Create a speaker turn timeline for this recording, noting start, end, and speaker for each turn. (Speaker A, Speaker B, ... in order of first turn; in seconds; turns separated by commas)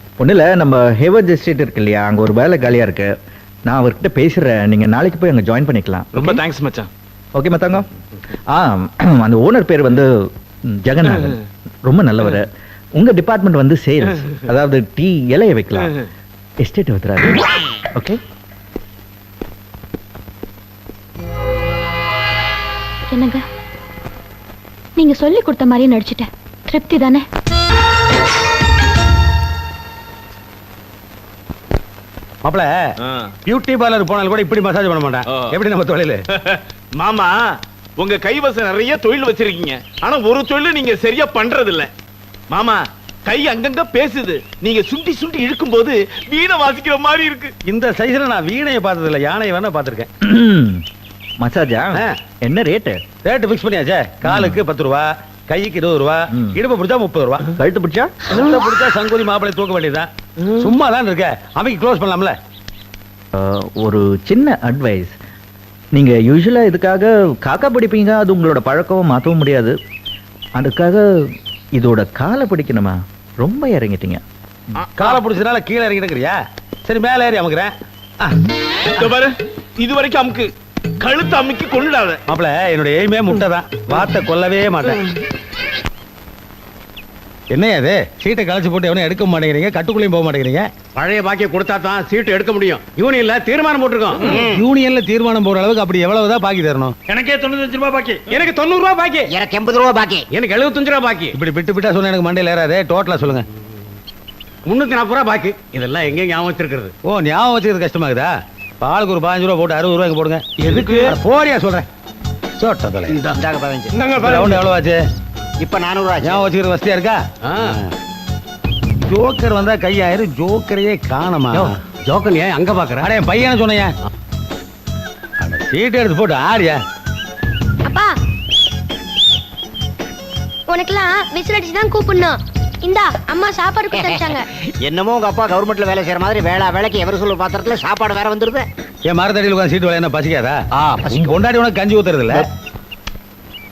Speaker A: 0.2-3.1, Speaker A: 3.7-6.2, Speaker B: 6.2-6.9, Speaker A: 7.3-10.1, Speaker A: 10.7-15.9, Speaker A: 16.6-17.4, Speaker C: 23.1-23.4, Speaker C: 25.0-27.2, Speaker D: 32.4-32.7, Speaker B: 33.0-33.3, Speaker D: 33.5-36.2, Speaker B: 36.4-37.3, Speaker B: 38.0-41.9, Speaker B: 42.5-47.5, Speaker D: 47.6-50.1, Speaker A: 50.2-50.8, Speaker A: 51.4-53.0, Speaker D: 53.2-57.5, Speaker A: 54.2-54.6, Speaker A: 56.3-56.6, Speaker A: 57.6-58.1, Speaker D: 58.3-62.4, Speaker A: 63.3-65.1, Speaker A: 65.9-69.7, Speaker A: 70.6-71.0, Speaker A: 71.8-74.2, Speaker B: 74.8-75.2, Speaker D: 75.0-77.7, Speaker B: 79.0-80.5, Speaker B: 81.0-82.2, Speaker D: 82.3-85.0, Speaker D: 87.5-90.7, Speaker E: 91.0-94.0, Speaker D: 94.0-97.0, Speaker E: 97.1-97.7, Speaker E: 98.4-99.1, Speaker F: 99.2-100.2, Speaker E: 100.5-101.2, Speaker D: 101.3-103.5, Speaker D: 107.0-111.8, Speaker D: 112.6-113.4, Speaker F: 113.1-114.0, Speaker D: 114.0-115.0, Speaker E: 114.2-114.5, Speaker F: 115.6-116.5, Speaker D: 116.2-117.8, Speaker D: 119.1-121.8, Speaker D: 122.5-123.9, Speaker D: 125.4-126.8, Speaker G: 127.8-128.1, Speaker G: 130.7-134.4, Speaker F: 133.9-134.2, Speaker F: 134.8-138.7, Speaker D: 139.1-142.5, Speaker F: 140.8-141.4